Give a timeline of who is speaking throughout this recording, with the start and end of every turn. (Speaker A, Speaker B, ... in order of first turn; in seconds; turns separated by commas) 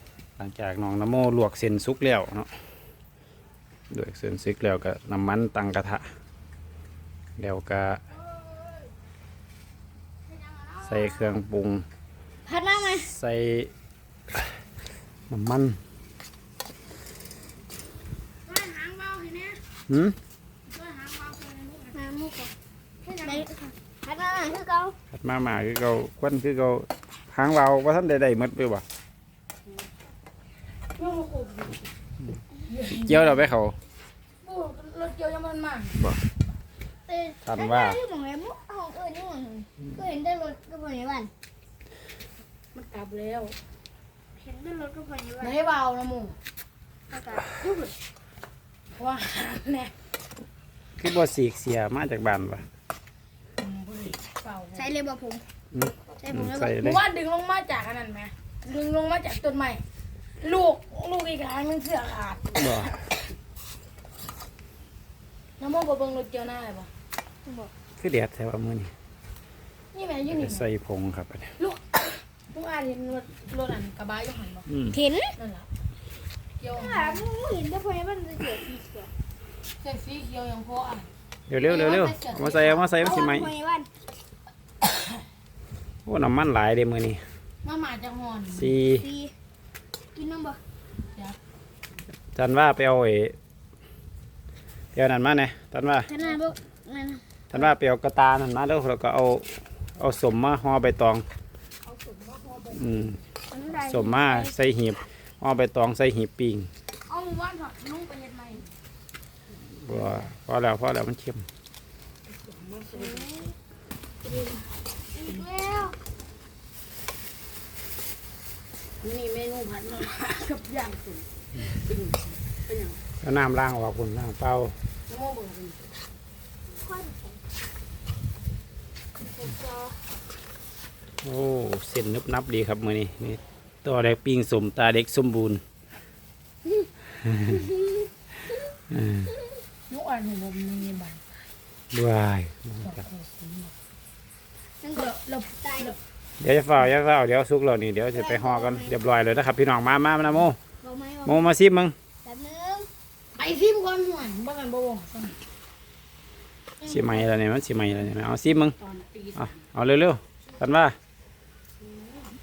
Speaker A: 0.4-2.5, Speaker A: 3.9-6.1, Speaker A: 7.4-8.0, Speaker B: 8.3-8.9, Speaker B: 10.3-11.4, Speaker A: 10.8-11.8, Speaker C: 12.5-13.1, Speaker A: 13.0-13.7, Speaker A: 15.3-15.8, Speaker B: 18.5-19.6, Speaker A: 19.9-20.2, Speaker B: 20.7-22.0, Speaker C: 21.9-22.5, Speaker B: 23.0-23.5, Speaker C: 23.2-25.0, Speaker A: 25.1-28.9, Speaker B: 31.0-31.8, Speaker B: 32.7-33.5, Speaker A: 33.0-33.8, Speaker B: 34.4-36.0, Speaker C: 37.1-41.3, Speaker A: 37.5-38.0, Speaker B: 42.8-43.5, Speaker C: 44.4-45.6, Speaker B: 45.4-46.4, Speaker C: 47.1-47.5, Speaker B: 47.5-47.9, Speaker B: 48.9-49.9, Speaker A: 51.0-52.6, Speaker B: 53.6-54.9, Speaker C: 54.7-55.4, Speaker A: 55.7-57.0, Speaker C: 56.2-56.8, Speaker B: 56.6-59.8, Speaker B: 60.4-63.0, Speaker A: 62.5-63.0, Speaker B: 65.6-66.9, Speaker C: 67.5-67.7, Speaker A: 68.0-68.9, Speaker B: 69.9-70.7, Speaker A: 70.3-71.5, Speaker B: 71.6-74.7, Speaker A: 74.7-75.0, Speaker C: 74.9-75.3, Speaker B: 75.4-75.7, Speaker B: 76.6-77.3, Speaker C: 76.7-79.1, Speaker B: 79.8-83.0, Speaker A: 81.5-83.5, Speaker C: 83.0-83.9, Speaker A: 86.1-87.2, Speaker B: 87.6-88.8, Speaker A: 88.5-89.1, Speaker C: 89.0-89.3, Speaker C: 90.1-90.6, Speaker A: 92.3-93.4, Speaker A: 94.9-96.1, Speaker C: 96.1-97.2, Speaker A: 97.5-101.3, Speaker B: 101.8-103.1, Speaker A: 102.7-103.2, Speaker C: 103.5-104.5, Speaker A: 103.8-106.7, Speaker B: 107.1-108.7, Speaker A: 109.8-111.5, Speaker B: 109.9-110.2, Speaker B: 112.3-113.5, Speaker C: 112.9-113.5, Speaker B: 114.2-114.7, Speaker C: 115.1-116.0, Speaker B: 119.0-123.0, Speaker A: 123.2-124.8, Speaker B: 125.1-125.8, Speaker C: 126.8-127.3, Speaker B: 129.3-129.9, Speaker A: 131.2-135.6, Speaker A: 138.9-139.3, Speaker B: 139.9-141.2, Speaker A: 141.9-143.0, Speaker B: 142.8-143.7, Speaker C: 144.8-146.0, Speaker B: 144.9-146.0, Speaker A: 146.4-150.6, Speaker C: 148.1-148.9, Speaker C: 150.8-151.5, Speaker A: 151.2-151.9, Speaker C: 152.2-152.9, Speaker B: 153.3-155.4, Speaker C: 156.8-157.2, Speaker A: 156.8-158.8, Speaker B: 158.8-159.6, Speaker A: 159.4-161.0